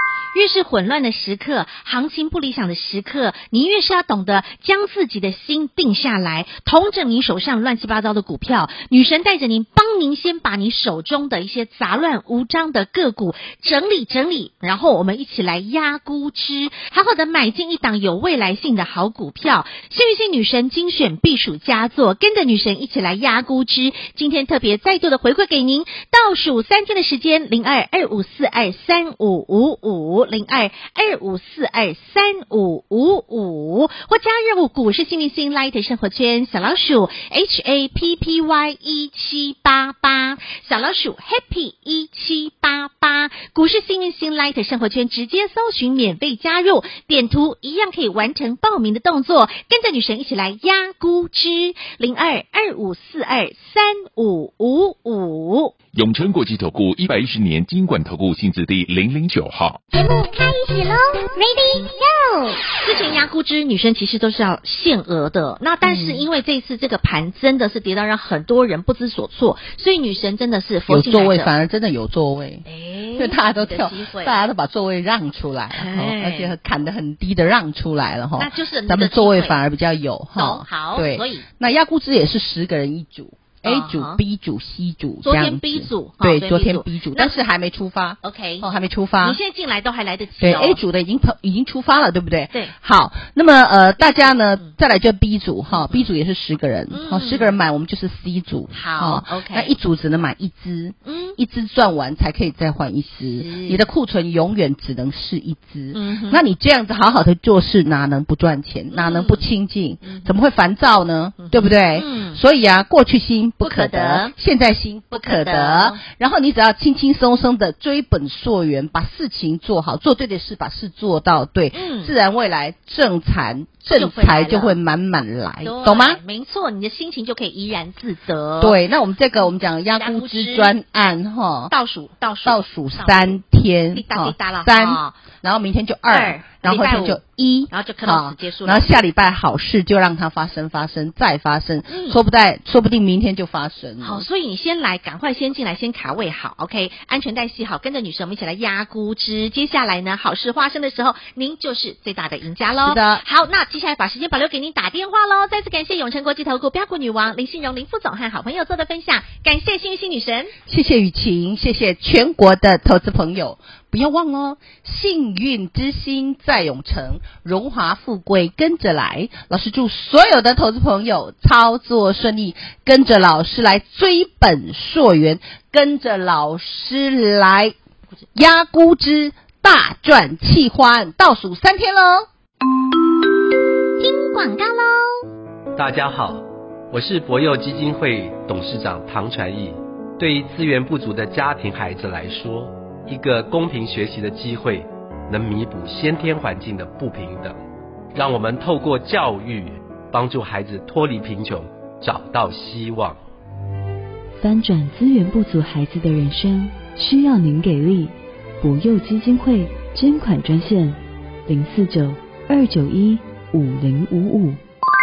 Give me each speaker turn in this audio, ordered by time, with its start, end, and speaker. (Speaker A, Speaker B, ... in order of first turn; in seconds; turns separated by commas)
Speaker A: 0.3-55.7, Speaker B: 55.9-59.8, Speaker C: 59.9-62.6, Speaker A: 62.8-71.5, Speaker D: 65.8-66.2, Speaker D: 70.9-72.6, Speaker A: 72.7-74.3, Speaker D: 73.1-89.4, Speaker A: 75.7-76.5, Speaker A: 78.4-79.6, Speaker A: 80.3-81.5, Speaker A: 83.6-84.2, Speaker A: 85.2-87.3, Speaker A: 88.2-88.7, Speaker A: 89.2-90.8, Speaker D: 90.4-126.2, Speaker A: 96.9-97.5, Speaker A: 98.7-99.7, Speaker A: 101.0-101.3, Speaker A: 103.4-103.8, Speaker A: 105.9-106.4, Speaker A: 108.9-109.5, Speaker A: 110.0-110.3, Speaker A: 111.4-112.4, Speaker A: 113.6-114.3, Speaker A: 115.1-116.0, Speaker A: 121.7-122.1, Speaker A: 123.9-124.8, Speaker A: 125.6-128.8, Speaker D: 128.6-131.7, Speaker A: 129.9-130.7, Speaker A: 131.7-133.4, Speaker D: 132.4-144.2, Speaker A: 133.9-135.1, Speaker A: 136.1-137.2, Speaker A: 137.7-139.0, Speaker A: 141.9-142.2, Speaker A: 144.0-160.5, Speaker D: 152.7-153.2, Speaker D: 160.7-177.7, Speaker D: 178.3-182.3, Speaker C: 184.0-185.2, Speaker E: 185.8-197.6, Speaker E: 198.1-203.2, Speaker F: 204.4-214.6